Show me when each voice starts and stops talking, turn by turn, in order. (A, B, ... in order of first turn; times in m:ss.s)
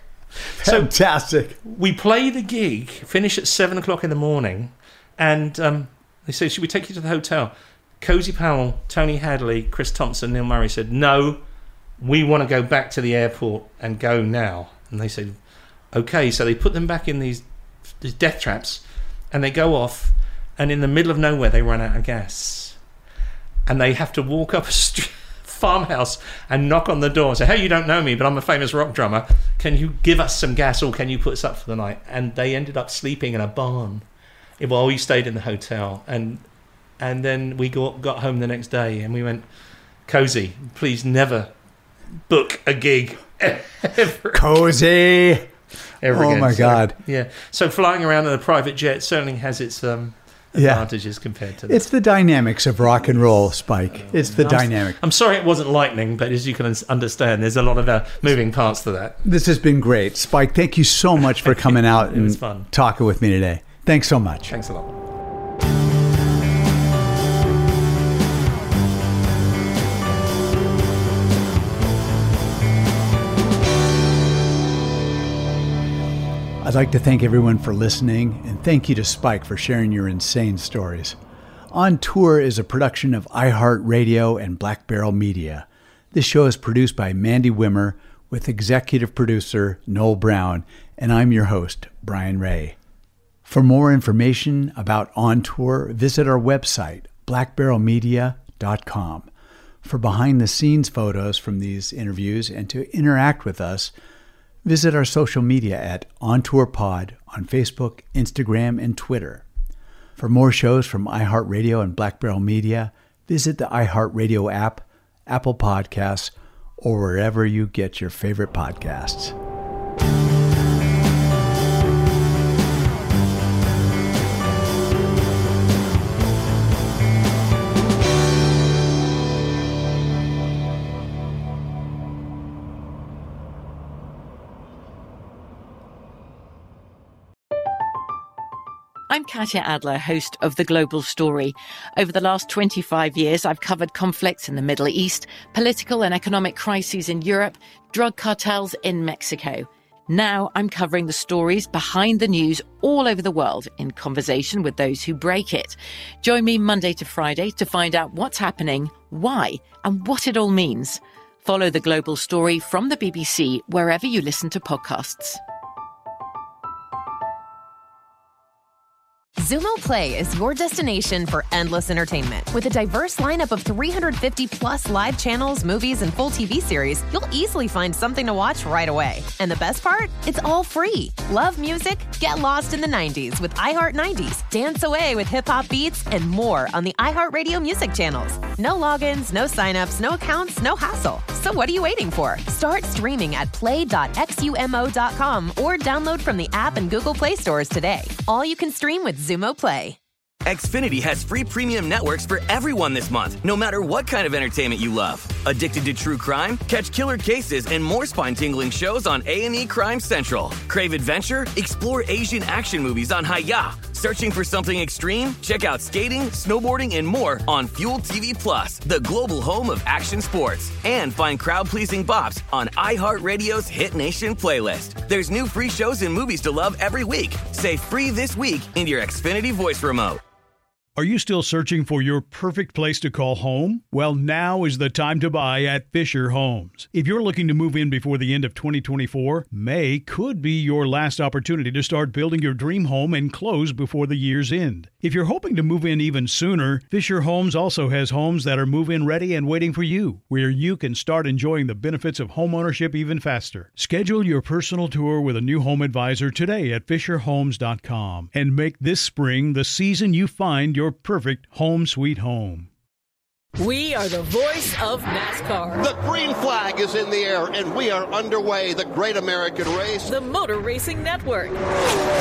0:00.6-0:00.9 A
0:00.6-0:01.6 B
0:01.6-0:11.4 A
0:12.0-0:15.3 A
0:15.9-0:17.4 A
0:18.0-0:22.8 A
0:23.6-0:34.0 A
0:34.6-0:36.4 A
0:37.0-0:39.4 A
0:40.1-0:41.5 A
0:42.3-0:44.4 A
0:44.3-0:45.5 B
0:46.0-0:51.8 A
0:46.1-0:47.0 B
0:50.5-0:50.9 B
0:51.7-0:55.0 B
0:53.9-0:59.2 A
0:59.2-1:04.5 B
1:01.4-1:02.7 A
1:04.5-1:04.9 A
1:16.6-1:21.2 B
1:21.7-1:32.8 B
1:33.4-1:39.3 B
1:39.8-1:43.9 B
1:44.6-1:49.4 B
1:50.2-1:59.3 B
2:19.1-2:45.4 C
2:49.4-3:20.0 D
3:20.4-3:50.2 E
3:51.0-4:22.7 F
4:23.6-4:25.9 G
4:25.7-4:30.1 H
4:30.0-4:31.6 G